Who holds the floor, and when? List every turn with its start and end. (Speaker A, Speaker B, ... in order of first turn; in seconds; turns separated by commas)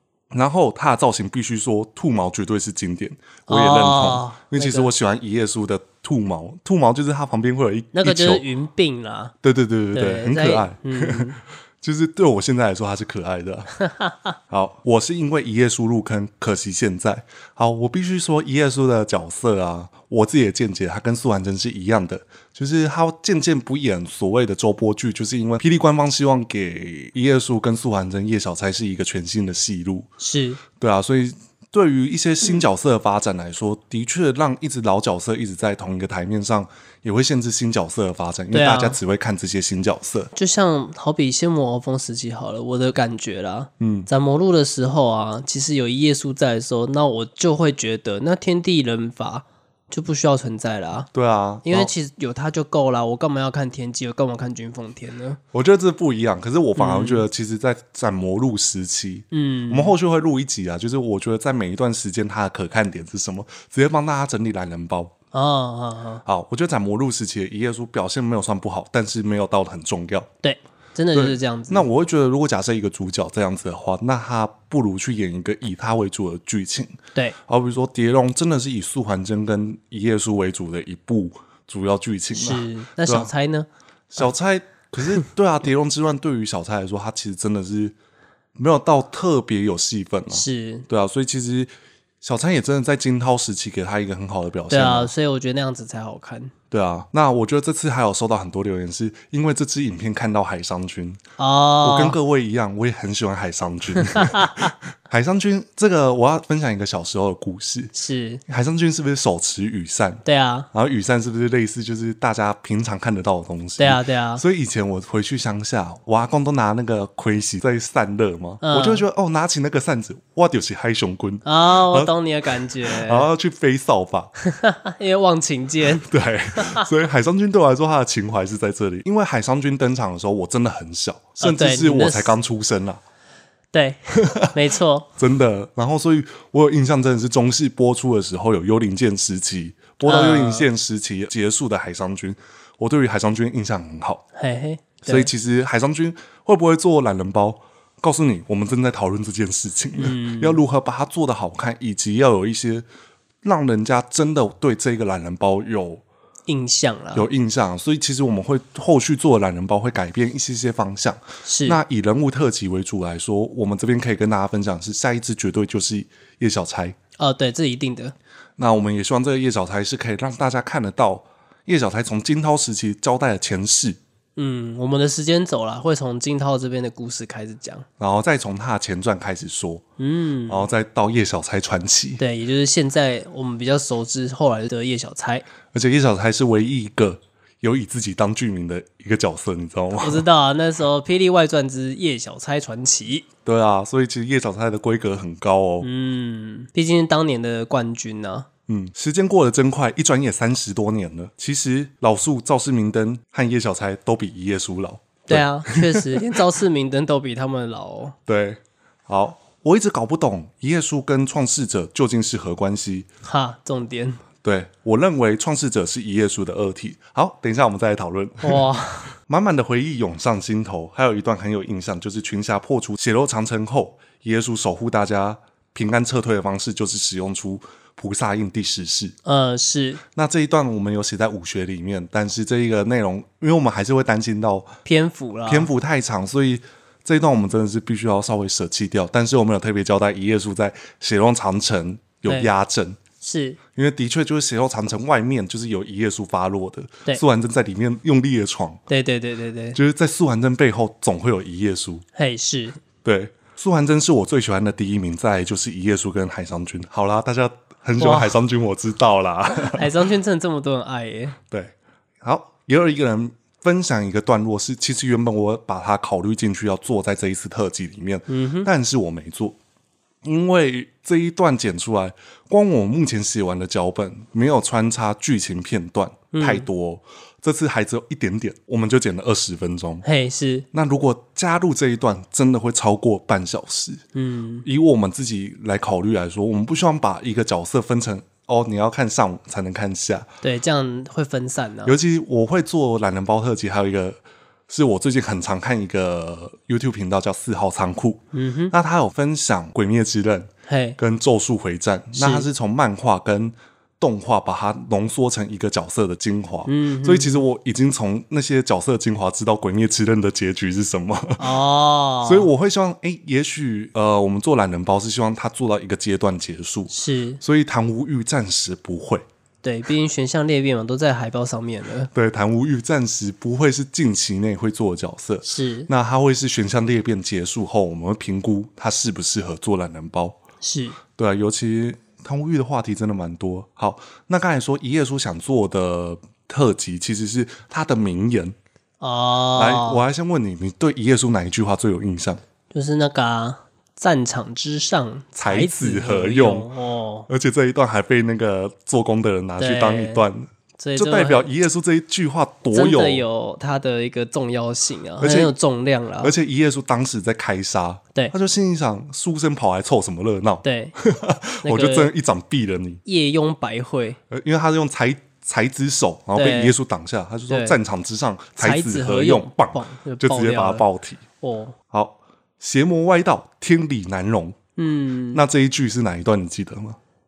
Speaker A: 0.3-8.4, Speaker B: 3.5-4.9, Speaker B: 7.9-9.3, Speaker A: 9.4-13.7, Speaker B: 9.9-11.4, Speaker B: 13.8-14.3, Speaker A: 14.5-30.1, Speaker B: 30.2-30.6, Speaker A: 30.8-40.3, Speaker B: 38.5-39.0, Speaker B: 40.3-51.1, Speaker A: 43.8-44.1, Speaker A: 51.1-51.9, Speaker B: 51.6-55.4, Speaker A: 55.5-65.1, Speaker B: 56.8-57.2, Speaker B: 59.3-59.9, Speaker B: 65.3-66.2, Speaker A: 66.2-70.3, Speaker B: 70.4-71.8, Speaker A: 71.1-83.3, Speaker B: 82.3-83.7, Speaker A: 84.1-87.9, Speaker A: 88.5-91.7, Speaker B: 90.3-90.9, Speaker A: 92.2-95.1, Speaker B: 94.7-96.5, Speaker A: 96.7-101.2, Speaker B: 101.4-102.2, Speaker A: 101.8-107.9, Speaker B: 104.0-104.7, Speaker B: 107.9-108.4, Speaker A: 108.5-122.1, Speaker B: 110.2-110.7, Speaker B: 113.8-114.4, Speaker B: 118.6-119.0, Speaker B: 121.4-123.3, Speaker A: 122.8-124.3, Speaker B: 124.4-126.9, Speaker A: 126.0-133.0, Speaker B: 131.4-132.3, Speaker B: 133.7-135.1, Speaker A: 134.2-134.5, Speaker A: 135.2-144.2, Speaker B: 140.0-140.7, Speaker B: 144.3-145.3, Speaker A: 145.0-152.8, Speaker B: 150.0-150.6, Speaker A: 153.4-156.0, Speaker B: 156.5-157.3, Speaker A: 157.1-167.0, Speaker B: 161.4-161.8, Speaker B: 167.2-168.1, Speaker A: 168.6-174.0, Speaker B: 174.4-177.8, Speaker A: 178.0-179.8, Speaker B: 180.0-180.7, Speaker A: 180.5-182.2, Speaker B: 182.2-185.4, Speaker A: 185.7-190.2, Speaker B: 190.0-193.2, Speaker A: 193.4-195.9, Speaker B: 195.8-198.5, Speaker A: 198.7-206.4, Speaker B: 205.3-208.2, Speaker A: 208.3-213.1, Speaker B: 213.2-214.2, Speaker A: 214.4-218.7, Speaker B: 218.4-219.1, Speaker A: 219.2-229.1, Speaker B: 229.2-230.0, Speaker A: 230.1-234.8, Speaker B: 234.8-235.7, Speaker A: 235.5-243.0, Speaker B: 243.2-243.6, Speaker A: 243.7-248.8, Speaker B: 248.9-249.8, Speaker A: 249.7-252.0, Speaker B: 252.2-252.8, Speaker A: 253.0-259.9, Speaker B: 258.0-258.4, Speaker B: 259.5-261.4, Speaker A: 261.5-269.6, Speaker B: 268.3-268.7, Speaker A: 270.2-280.0, Speaker B: 276.3-276.7, Speaker B: 280.0-280.6, Speaker A: 280.7-284.0, Speaker B: 284.1-284.6, Speaker A: 284.6-290.3, Speaker B: 290.4-291.9, Speaker A: 291.8-311.4, Speaker B: 298.3-298.7, Speaker B: 300.7-301.0, Speaker B: 302.1-302.5, Speaker B: 306.6-307.4, Speaker B: 311.4-312.5, Speaker A: 312.2-319.2, Speaker B: 316.9-317.4, Speaker B: 319.6-322.1, Speaker A: 322.1-330.4, Speaker B: 325.4-325.9, Speaker B: 330.6-331.0, Speaker A: 331.1-338.6, Speaker B: 339.0-340.0, Speaker A: 339.6-342.4, Speaker B: 342.7-347.3, Speaker A: 345.4-346.7, Speaker A: 347.3-353.2, Speaker B: 349.6-350.2, Speaker B: 350.8-351.4, Speaker B: 352.7-356.3, Speaker A: 355.2-355.5, Speaker A: 356.2-363.0, Speaker B: 360.6-360.9, Speaker B: 361.6-362.1, Speaker B: 363.0-364.2, Speaker A: 364.3-371.2, Speaker B: 366.3-366.7, Speaker B: 367.5-367.8, Speaker B: 368.6-370.8, Speaker B: 371.4-371.7, Speaker A: 371.9-374.6, Speaker B: 374.8-375.4, Speaker A: 375.3-377.0